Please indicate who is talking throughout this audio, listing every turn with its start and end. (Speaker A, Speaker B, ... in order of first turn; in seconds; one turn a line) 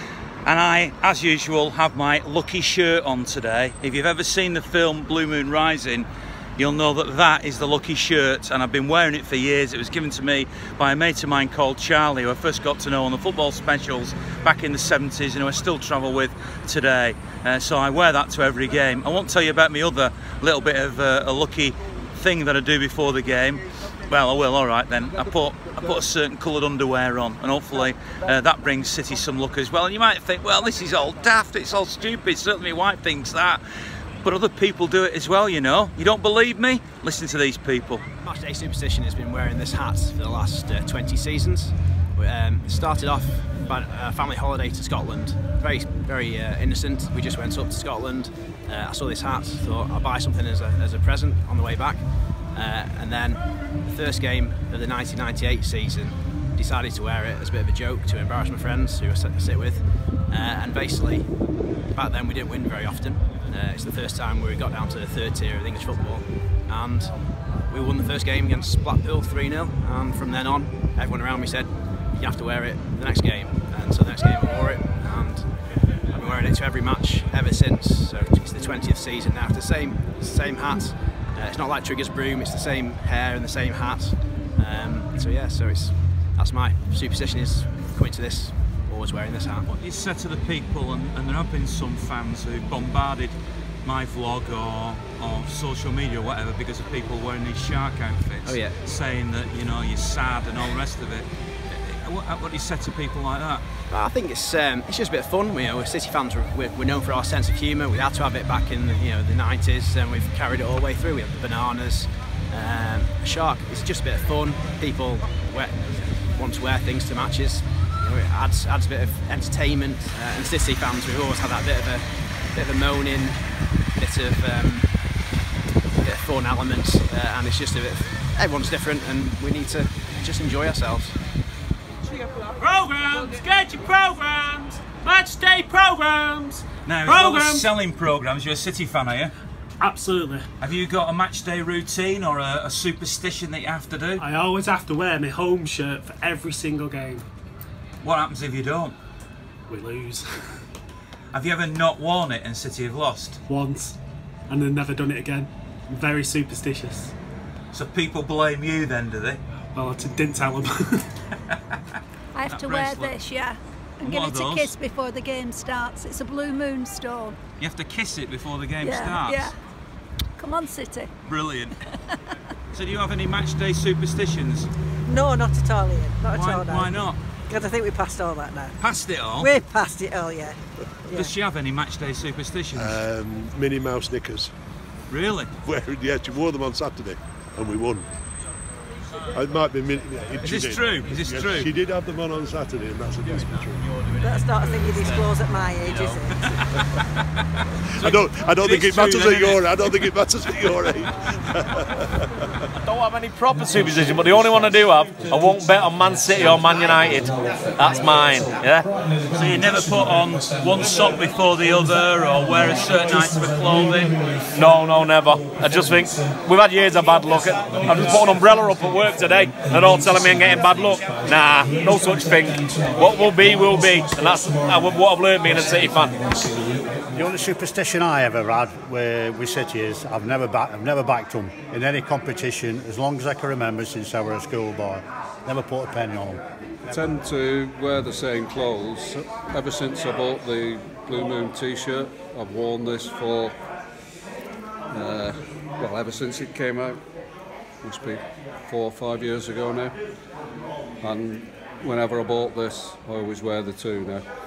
Speaker A: 0.5-6.1
Speaker A: 6.6-33.6
Speaker A: 34.2-38.0
Speaker B: 38.2-61.3
Speaker B: 61.9-67.1
Speaker B: 67.7-75.5
Speaker B: 76.1-89.7
Speaker A: 89.7-103.6
Speaker B: 98.5-98.8
Speaker B: 103.9-123.4
Speaker B: 124.0-124.9
Speaker B: 126.0-131.2
Speaker C: 132.5-137.7
Speaker A: 136.9-139.3
Speaker C: 139.8-140.5
Speaker A: 140.6-144.2
Speaker C: 144.2-147.3
Speaker A: 148.0-149.0
Speaker C: 149.7-150.6
Speaker A: 151.3-153.4
Speaker C: 153.5-154.0
Speaker C: 154.5-157.1
Speaker A: 157.7-159.4
Speaker C: 159.8-161.1
Speaker D: 162.3-167.4
Speaker A: 162.5-163.2
Speaker A: 164.0-164.7
Speaker A: 167.6-169.5
Speaker D: 168.8-169.5
Speaker D: 170.4-171.1
Speaker A: 171.3-171.7
Speaker A: 172.7-174.7
Speaker E: 175.1-178.7
Speaker A: 176.3-177.2
Speaker A: 178.8-179.6
Speaker E: 179.4-180.6
Speaker A: 181.2-183.0
Speaker F: 182.8-184.5
Speaker A: 185.1-185.5
Speaker F: 185.6-188.1
Speaker F: 189.3-193.9
Speaker A: 190.4-191.7
Speaker E: 194.2-196.5
Speaker A: 198.0-199.9
Speaker F: 198.0-202.0
Speaker G: 202.9-208.8
Speaker A: 209.3-214.3
Speaker G: 214.6-226.2
Speaker H: 227.1-236.4
Speaker I: 236.9-243.6
Speaker I: 244.9-247.0
Speaker I: 247.8-250.0
Speaker I: 251.0-254.2